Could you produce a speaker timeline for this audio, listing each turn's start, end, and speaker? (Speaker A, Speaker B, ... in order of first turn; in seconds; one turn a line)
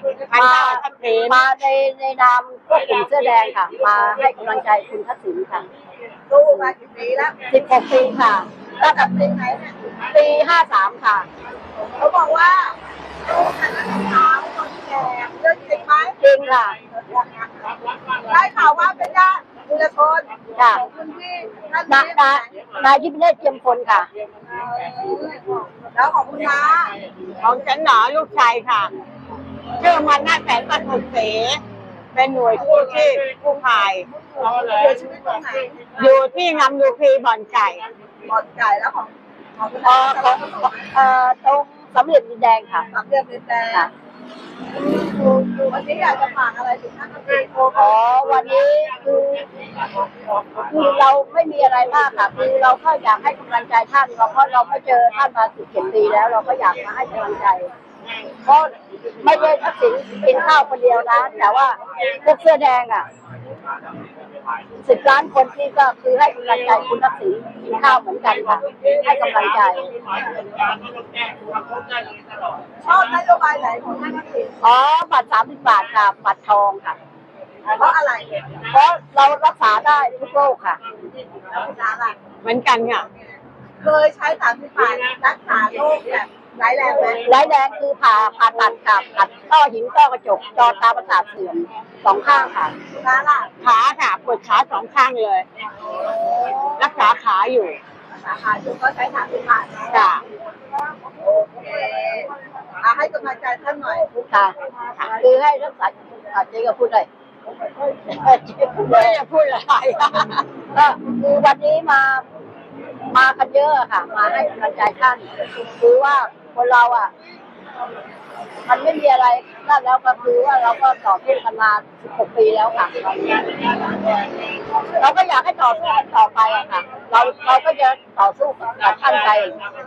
Speaker A: 0.3-1.4
Speaker B: 0.3-5.7
Speaker C: 6.3-7.4
Speaker B: 7.5-8.5
Speaker C: 8.8-9.8
Speaker B: 10.1-11.3
Speaker C: 11.8-16.2
Speaker B: 16.2-16.8
Speaker C: 16.9-22.7
Speaker B: 21.9-24.1
Speaker C: 24.5-26.9
Speaker A: 27.4-28.9
Speaker A: 29.8-31.6
Speaker A: 32.1-34.1
Speaker C: 34.5-35.8
Speaker A: 36.0-37.9
Speaker C: 38.3-41.0
Speaker B: 39.8-42.9
Speaker C: 42.9-43.9
Speaker C: 44.7-47.8
Speaker B: 47.8-49.5
Speaker B: 50.6-57.7
Speaker B: 58.4-63.1
Speaker B: 64.8-69.9
Speaker C: 72.8-74.6
Speaker B: 74.6-77.0
Speaker C: 77.7-78.5
Speaker B: 78.7-80.8
Speaker C: 81.5-82.2
Speaker A: 82.4-83.1
Speaker C: 83.8-87.2
Speaker B: 87.2-92.8
Speaker C: 92.9-93.5
Speaker A: 93.6-95.5
Speaker C: 95.9-96.9
Speaker A: 96.8-97.8
Speaker C: 98.1-100.1
Speaker A: 99.9-100.2
Speaker C: 101.2-104.1
Speaker B: 104.1-107.1
Speaker B: 107.8-109.2
Speaker A: 108.8-110.4
Speaker B: 110.7-112.2
Speaker B: 113.1-117.1
Speaker B: 118.7-124.0
Speaker B: 125.0-129.6